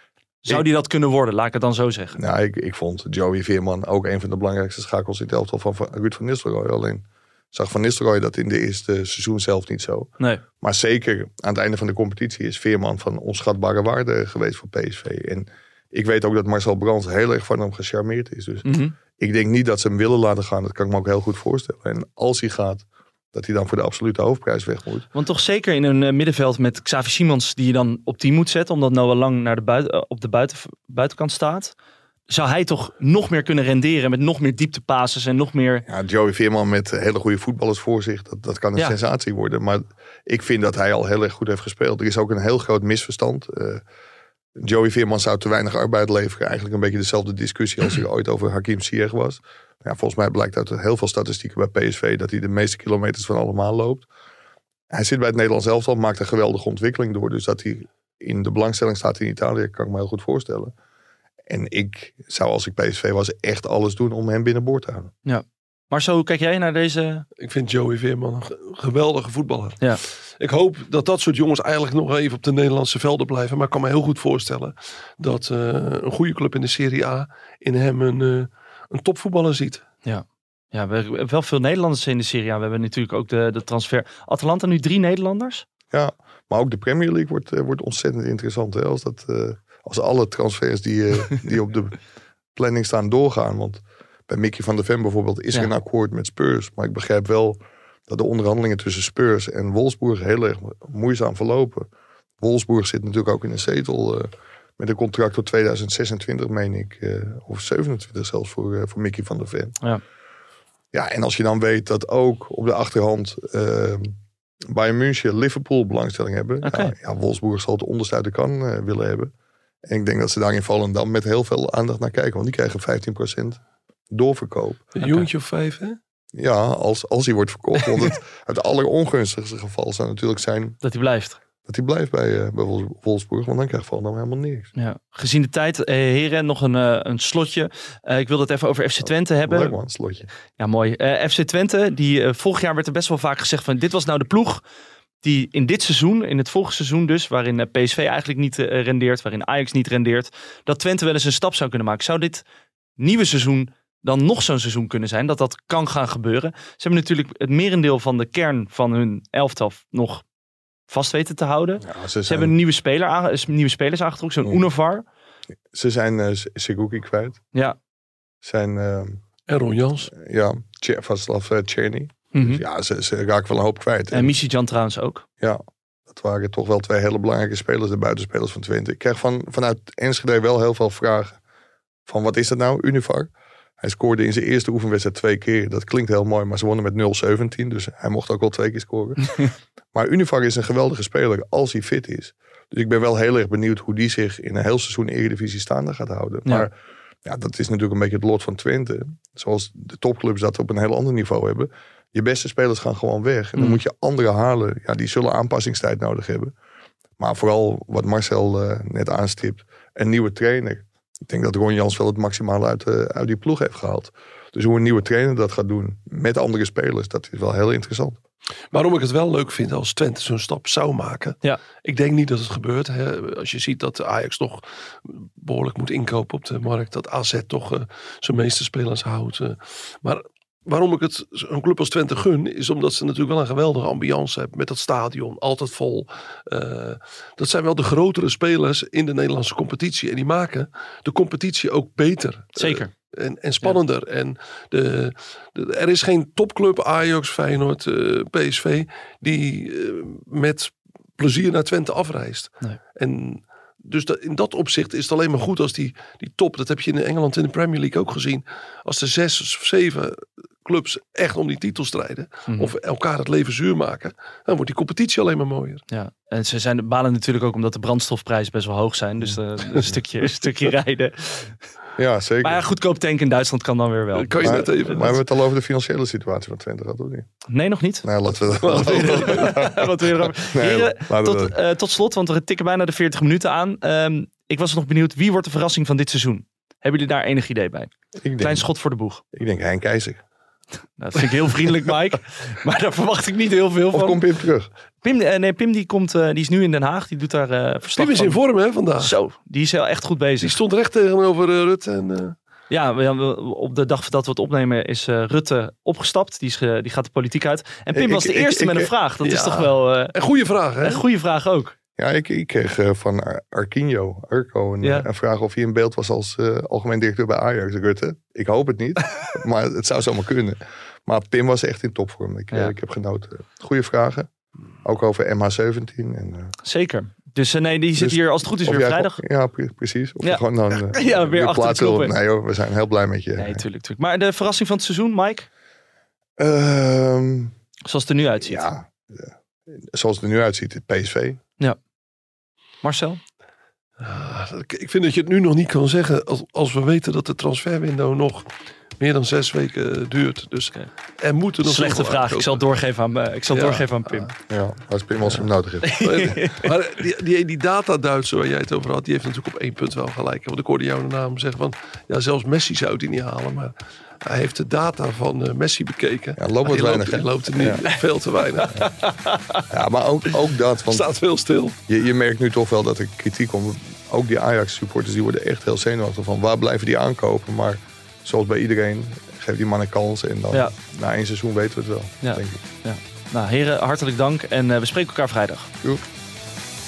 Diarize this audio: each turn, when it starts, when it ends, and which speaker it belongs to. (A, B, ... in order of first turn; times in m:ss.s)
0:00.4-0:02.2 A
0:02.2-0:25.1 B
0:18.6-0:19.0 A
0:25.1-0:31.7 A
0:32.3-0:35.8 A
0:35.9-0:43.8 B
0:44.6-0:54.1 B
0:54.9-1:00.7 B
1:01.5-1:05.1 B
1:05.2-1:07.2 A
1:07.4-1:19.8 C
1:20.0-1:25.7 A
1:25.9-1:32.0 B
1:32.6-1:41.9 B
1:42.4-1:49.8 B
1:50.9-1:54.2 B
1:54.7-1:59.3 B
1:56.6-1:56.9 A
1:59.8-2:04.8 B
2:05.0-2:06.0 C
2:06.3-2:10.8 B
2:10.8-2:11.4 A
2:11.7-2:14.7 B
2:14.8-2:19.8 A
2:19.0-2:20.3 B
2:20.6-2:24.6 A
2:25.2-2:32.4 A
2:33.0-2:40.2 A
2:40.9-2:45.0 A
2:41.8-2:42.5 B
2:45.7-2:47.4 B
2:48.4-2:49.2 B
2:49.5-2:50.1 C
2:50.1-2:54.3 B
2:52.3-2:52.6 A
2:54.1-2:55.2 A
2:55.4-3:01.4 B
3:02.1-3:03.3 B
3:03.8-3:16.7 B
3:17.2-3:26.5 B
3:27.2-3:38.2 B
3:38.7-4:25.8 C
4:02.6-4:02.9 A
4:25.9-4:31.6 A
4:32.0-4:32.6 B
4:32.4-4:34.8 A
4:34.2-4:35.2 C
4:34.4-4:37.3 B
4:37.5-4:38.1 A
4:38.0-4:41.6 B
4:38.4-4:39.5 C
4:38.7-4:49.2 A
4:48.2-4:48.7 B
4:49.3-4:50.2 B
4:51.0-4:54.2 A
4:53.9-4:54.7 B
4:55.0-4:58.4 A
4:58.0-4:59.2 C
4:59.0-5:00.6 A
5:00.4-5:02.4 C
5:02.7-5:10.1 A
5:07.9-5:08.9 B
5:09.2-5:11.0 C
5:10.8-5:11.7 A
5:12.0-5:24.3 B
5:14.8-5:15.1 A
5:24.8-5:26.5 B
5:26.6-5:29.2 A
5:28.0-5:33.6 B
5:30.2-5:32.1 A
5:33.4-5:35.5 A
5:36.4-5:37.5 B
5:37.9-5:38.6 A
5:38.4-5:41.4 B
5:42.8-5:43.2 A
5:44.0-5:48.5 C
5:49.0-5:52.6 C
5:51.6-5:54.3 A
5:53.5-5:54.3 C
5:54.5-5:56.3 B
5:55.8-5:56.7 A
5:56.0-6:08.8 C
6:06.4-6:07.8 B
6:08.6-6:09.7 A
6:09.7-6:11.1 B
6:10.9-6:11.8 C
6:11.9-6:22.6 B
6:22.2-6:25.7 A